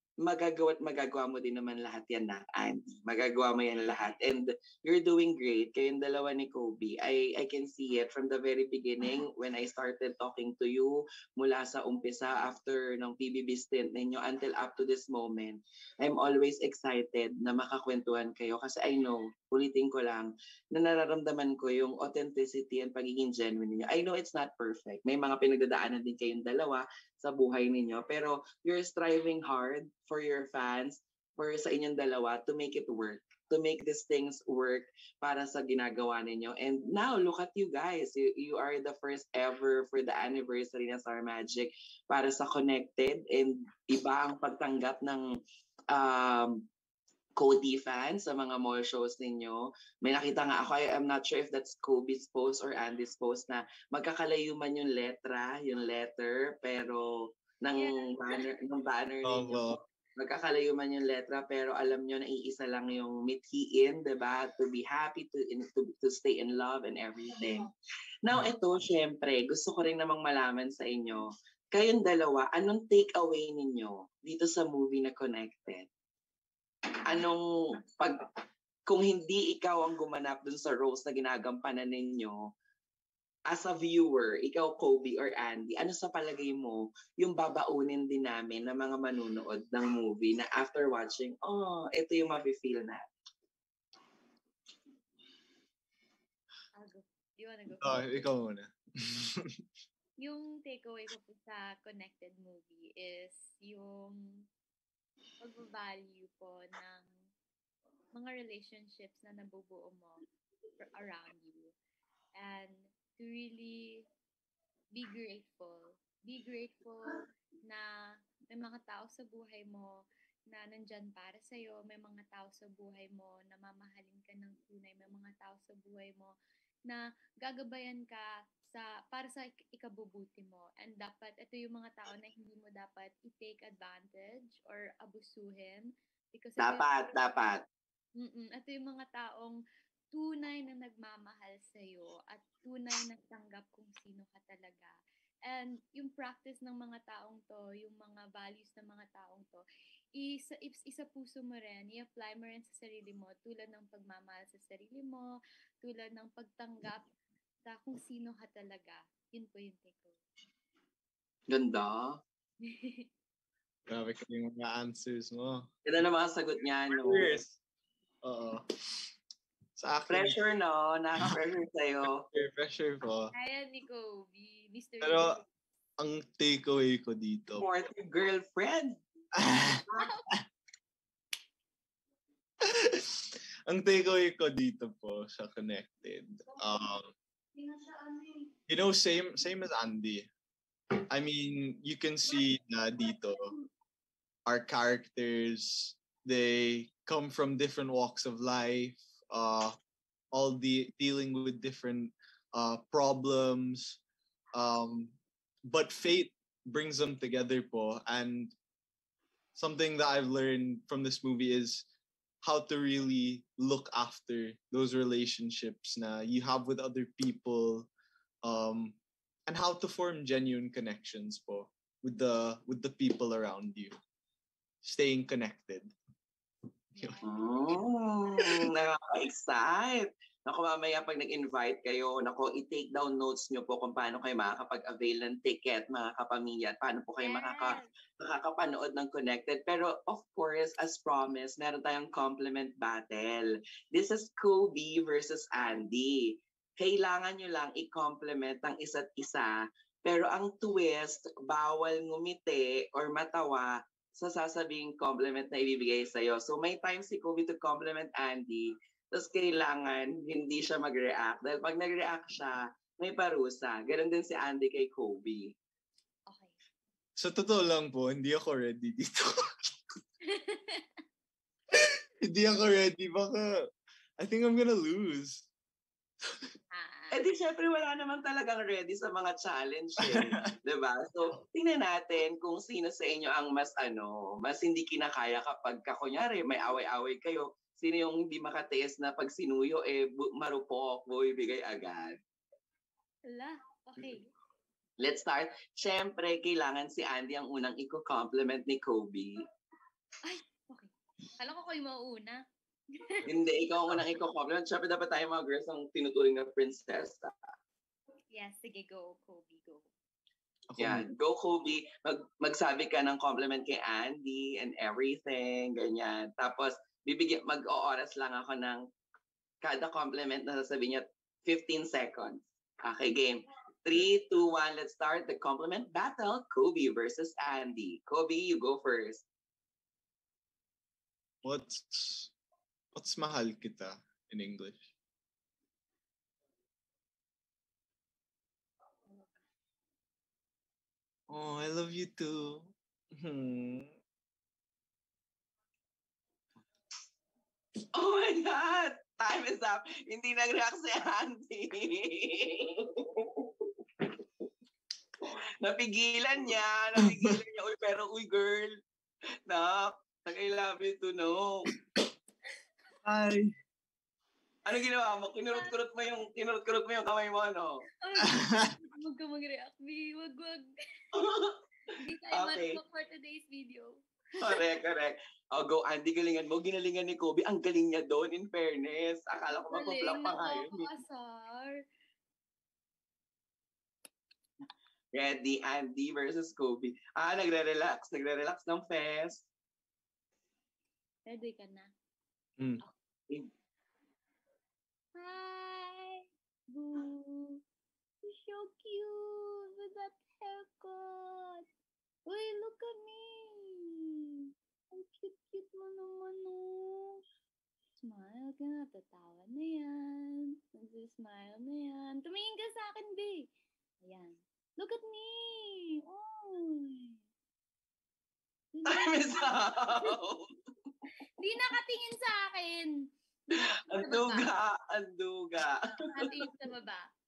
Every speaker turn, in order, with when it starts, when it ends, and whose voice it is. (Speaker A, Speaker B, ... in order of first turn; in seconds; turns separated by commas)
Speaker A: 0.2-45.2, Speaker A: 45.9-46.6, Speaker A: 47.4-67.7, Speaker B: 57.8-58.1, Speaker C: 59.2-59.8, Speaker A: 68.2-75.9, Speaker A: 77.0-78.2, Speaker A: 78.9-82.5, Speaker A: 83.5-93.0, Speaker B: 96.8-98.3, Speaker C: 97.8-99.6, Speaker B: 100.2-104.4, Speaker B: 105.4-107.0, Speaker B: 108.1-110.2, Speaker B: 110.8-111.7, Speaker B: 112.4-114.0, Speaker B: 114.9-117.9, Speaker B: 118.5-119.9, Speaker B: 120.5-126.3, Speaker B: 126.9-137.0, Speaker A: 136.6-137.6, Speaker B: 138.2-139.6, Speaker B: 140.1-149.6, Speaker B: 150.2-157.1, Speaker B: 157.6-160.2, Speaker A: 161.5-162.2, Speaker B: 162.6-163.1, Speaker C: 163.9-165.7, Speaker A: 165.8-167.4, Speaker C: 166.9-167.6, Speaker C: 168.2-169.1, Speaker C: 169.8-170.4, Speaker A: 170.1-172.2, Speaker C: 172.3-173.3, Speaker B: 173.3-175.4, Speaker C: 175.0-175.4, Speaker C: 176.0-177.7, Speaker A: 177.6-179.0, Speaker C: 179.3-179.8, Speaker B: 179.9-180.3, Speaker C: 182.6-187.1, Speaker B: 187.7-188.4, Speaker C: 188.7-190.3, Speaker C: 191.1-193.5, Speaker C: 194.4-199.7, Speaker C: 200.3-204.0, Speaker C: 204.5-208.5, Speaker C: 209.5-211.8, Speaker C: 212.4-217.9, Speaker C: 218.4-223.9, Speaker C: 224.8-225.9, Speaker B: 227.0-227.8, Speaker A: 227.2-265.5, Speaker B: 237.2-237.9, Speaker B: 266.3-266.5, Speaker C: 267.1-269.7, Speaker B: 270.2-270.9, Speaker C: 271.7-273.6, Speaker C: 274.2-275.5, Speaker B: 276.7-277.2, Speaker A: 277.1-292.1, Speaker C: 280.0-280.3, Speaker B: 293.3-294.3, Speaker A: 295.0-299.4, Speaker B: 300.2-302.4, Speaker B: 302.9-303.2, Speaker A: 303.3-307.3, Speaker B: 308.3-309.9, Speaker C: 310.7-311.0, Speaker A: 310.8-318.8, Speaker A: 319.6-329.2, Speaker C: 331.4-332.3, Speaker C: 332.9-334.9, Speaker C: 341.3-343.9, Speaker A: 347.9-354.1, Speaker A: 355.2-358.7, Speaker C: 357.0-357.4, Speaker A: 359.5-361.6, Speaker C: 363.0-363.5, Speaker A: 364.6-367.8, Speaker B: 368.0-370.7, Speaker C: 368.2-368.7, Speaker A: 371.1-371.6, Speaker B: 372.0-374.6, Speaker A: 372.3-372.8, Speaker A: 374.4-380.9, Speaker B: 379.7-381.8, Speaker A: 385.1-389.5, Speaker B: 391.3-391.9, Speaker B: 395.1-397.6, Speaker B: 398.2-401.6, Speaker B: 402.2-407.2, Speaker B: 408.0-413.5, Speaker B: 414.0-417.2, Speaker B: 418.7-420.2, Speaker A: 418.9-420.4, Speaker B: 421.4-423.0, Speaker A: 423.6-426.3, Speaker B: 423.7-424.5, Speaker B: 426.1-427.1